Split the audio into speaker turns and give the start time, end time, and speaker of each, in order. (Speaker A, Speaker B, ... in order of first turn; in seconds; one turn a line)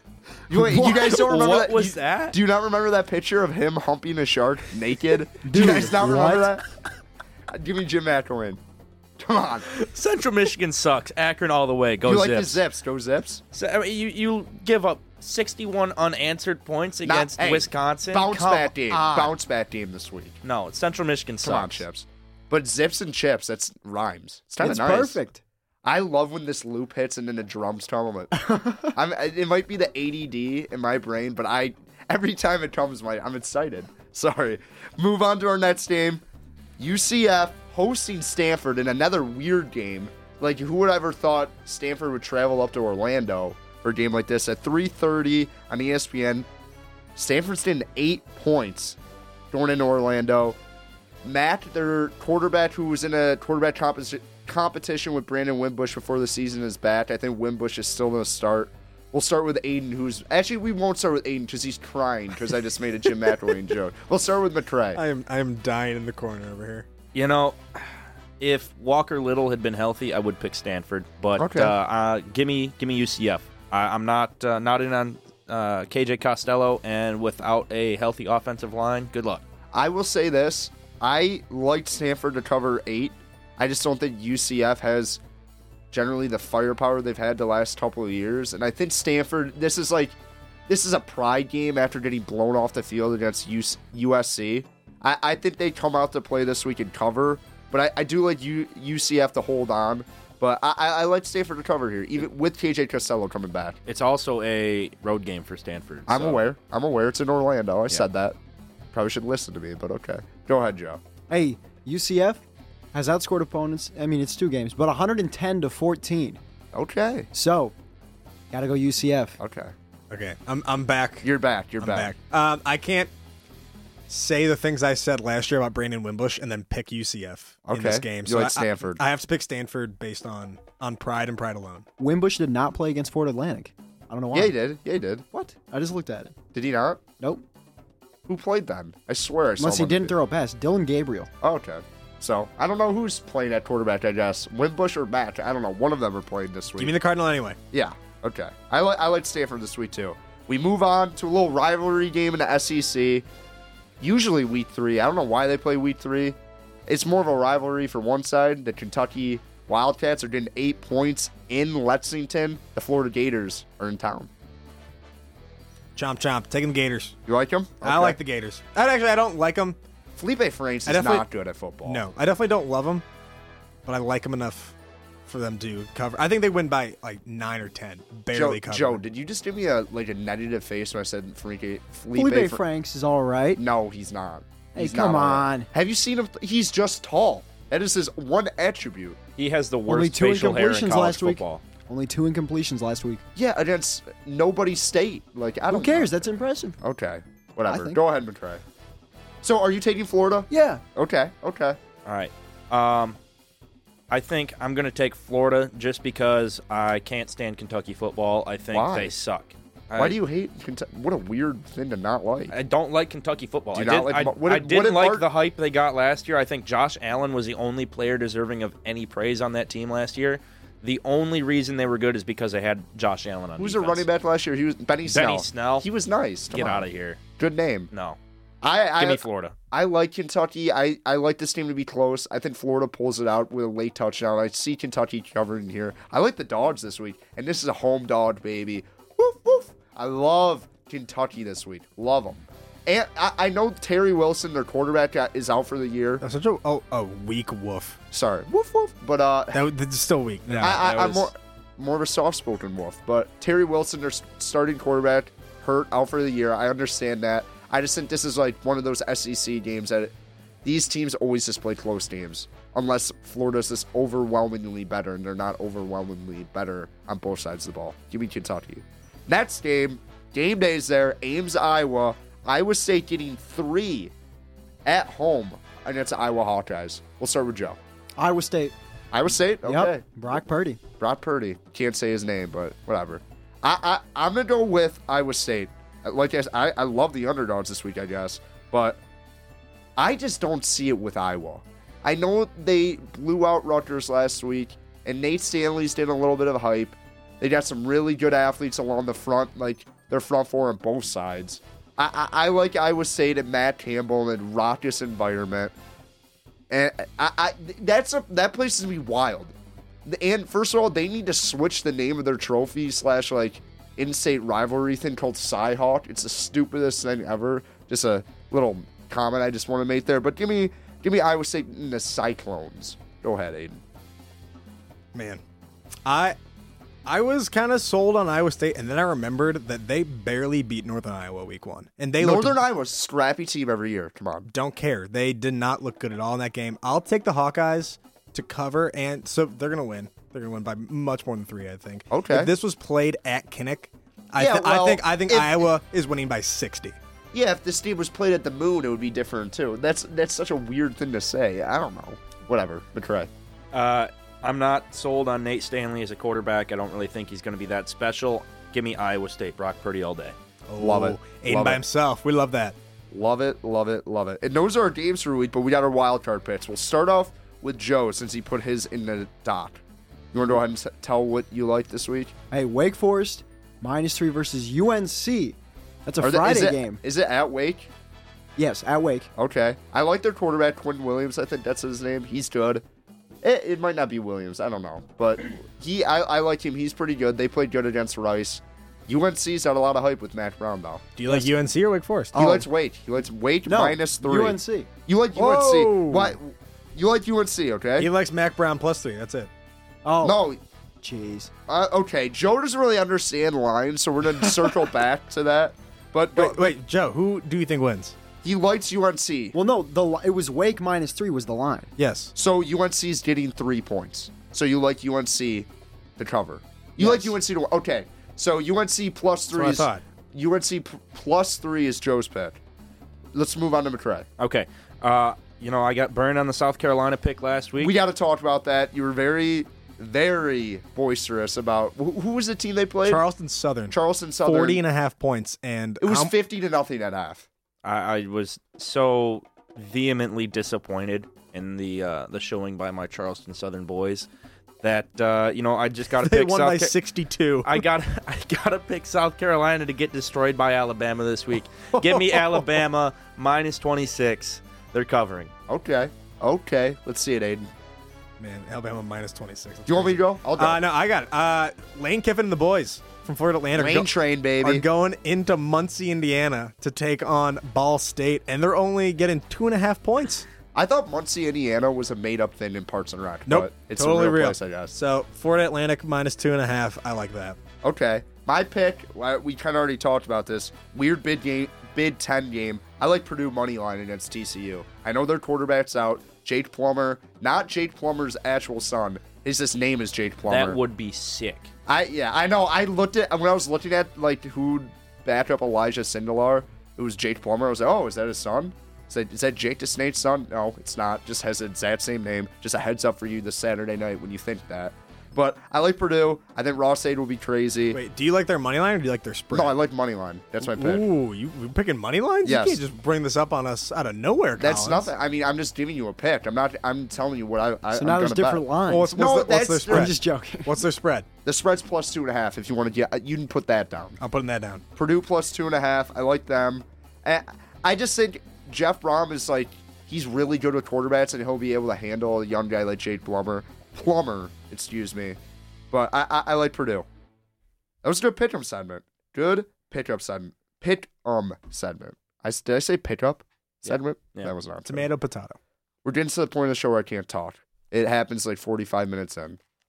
Speaker A: 0.5-6.6
Speaker B: 0.5-2.4
Speaker C: 5.4-6.5
Speaker A: 7.5-8.6
Speaker A: 9.2-9.7
Speaker B: 9.7-12.6
Speaker A: 12.0-13.4
Speaker B: 13.5-19.3
Speaker A: 17.1-20.4
Speaker B: 20.4-21.8
Speaker A: 21.4-25.2
Speaker C: 24.6-25.4
Speaker A: 25.8-36.2
Speaker C: 28.4-28.9
Speaker A: 36.8-46.5
Speaker A: 47.1-49.0
Speaker A: 49.5-50.6
Speaker A: 51.2-65.0
Speaker D: 64.9-66.9
Speaker B: 67.1-79.4
Speaker A: 71.4-71.7
Speaker A: 79.7-85.2
Speaker A: 85.9-90.2
Speaker A: 90.7-103.8
Speaker B: 103.8-106.4
Speaker A: 106.1-108.3
Speaker A: 108.9-111.0
Speaker C: 111.3-116.4
Speaker A: 116.7-117.3
Speaker C: 117.3-117.7
Speaker C: 118.5-119.4
Speaker A: 119.4-119.7
Speaker D: 120.1-121.3
Speaker A: 121.2-122.1
Speaker D: 121.8-123.1
Speaker D: 124.1-131.8
Speaker A: 127.7-129.0
Speaker C: 132.0-134.6
Speaker A: 134.3-135.2
Speaker C: 135.3-136.3
Speaker A: 136.5-137.0
Speaker A: 138.3-140.1
Speaker C: 139.6-141.3
Speaker A: 141.4-146.9
Speaker D: 146.8-147.6
Speaker A: 147.7-153.3
Speaker A: 154.0-164.3
Speaker D: 165.9-167.2
Speaker A: 167.2-168.2
Speaker D: 167.8-169.8
Speaker A: 170.2-172.0
Speaker D: 170.8-171.3
Speaker D: 171.8-173.0
Speaker D: 173.8-179.0
Speaker A: 178.3-182.6
Speaker C: 182.1-183.6
Speaker A: 183.6-189.2
Speaker C: 184.7-185.7
Speaker B: 189.4-191.6
Speaker C: 189.9-193.2
Speaker A: 193.3-196.2
Speaker C: 195.7-196.8
Speaker A: 196.8-198.6
Speaker C: 197.7-198.0
Speaker A: 199.4-201.8
Speaker C: 200.5-200.8
Speaker B: 202.0-203.2
Speaker B: 204.1-210.2
Speaker A: 208.7-209.1
Speaker A: 209.9-212.5
Speaker B: 212.5-224.1
Speaker A: 213.7-215.2
Speaker A: 223.6-226.9
Speaker B: 225.0-225.9
Speaker B: 226.5-227.2
Speaker A: 227.4-227.9
Speaker B: 227.9-228.2
Speaker A: 228.6-246.2
Speaker B: 229.0-229.5
Speaker D: 246.2-248.0
Speaker A: 248.1-249.6
Speaker D: 249.5-251.0
Speaker A: 250.6-274.1
Speaker B: 250.6-251.3
Speaker A: 274.8-277.8
Speaker C: 278.2-278.7
Speaker A: 279.1-280.0
Speaker C: 279.6-280.8
Speaker A: 281.0-289.0
Speaker A: 290.0-305.7
Speaker A: 306.7-309.5
Speaker A: 310.0-323.8
Speaker D: 325.1-325.4
Speaker D: 326.0-326.4
Speaker D: 327.1-332.6
Speaker A: 332.2-334.5
Speaker D: 334.5-347.0
Speaker A: 342.1-342.5
Speaker A: 344.4-345.7
Speaker A: 347.3-353.3
Speaker B: 353.7-360.4
Speaker D: 360.7-362.8
Speaker A: 360.8-361.8
Speaker A: 363.1-369.8
Speaker A: 370.3-372.3
Speaker C: 372.5-377.0
Speaker A: 376.2-377.9
Speaker C: 378.6-379.3
Speaker A: 379.4-382.8
Speaker A: 383.4-391.2
Speaker D: 391.1-392.5
Speaker A: 392.3-398.1
Speaker C: 392.3-392.6
Speaker C: 393.6-394.9
Speaker D: 395.3-396.4
Speaker D: 398.0-399.5
Speaker C: 400.0-400.4
Speaker A: 400.2-400.6
Speaker C: 401.0-401.5
Speaker A: 401.7-406.7
Speaker D: 406.3-408.1
Speaker A: 408.4-409.5
Speaker C: 409.5-411.9
Speaker D: 412.0-412.3
Speaker A: 412.3-422.6
Speaker C: 417.0-417.3
Speaker D: 419.5-420.0
Speaker A: 423.3-424.3
Speaker B: 424.4-427.9
Speaker A: 427.8-433.2
Speaker D: 433.0-436.3
Speaker A: 433.9-434.8
Speaker A: 436.0-437.5
Speaker B: 437.8-444.3
Speaker B: 444.8-446.9
Speaker D: 446.1-447.9
Speaker B: 447.6-455.5
Speaker D: 451.9-452.8
Speaker A: 455.7-457.7
Speaker D: 458.4-470.5
Speaker A: 459.9-460.8
Speaker A: 463.8-464.8
Speaker A: 470.7-474.9
Speaker D: 473.5-477.6
Speaker A: 477.8-490.8
Speaker B: 490.4-491.7
Speaker A: 491.9-508.0
Speaker D: 507.9-509.8
Speaker A: 509.5-511.0
Speaker D: 510.6-515.1
Speaker A: 512.4-512.8
Speaker A: 514.6-520.1
Speaker C: 517.9-519.1
Speaker D: 518.9-521.3
Speaker C: 519.9-520.7
Speaker A: 521.4-524.2
Speaker D: 524.2-524.8
Speaker A: 525.0-535.4
Speaker A: 535.9-537.0
Speaker A: 538.0-545.1
Speaker B: 543.8-544.5
Speaker D: 544.8-545.6
Speaker A: 546.0-549.6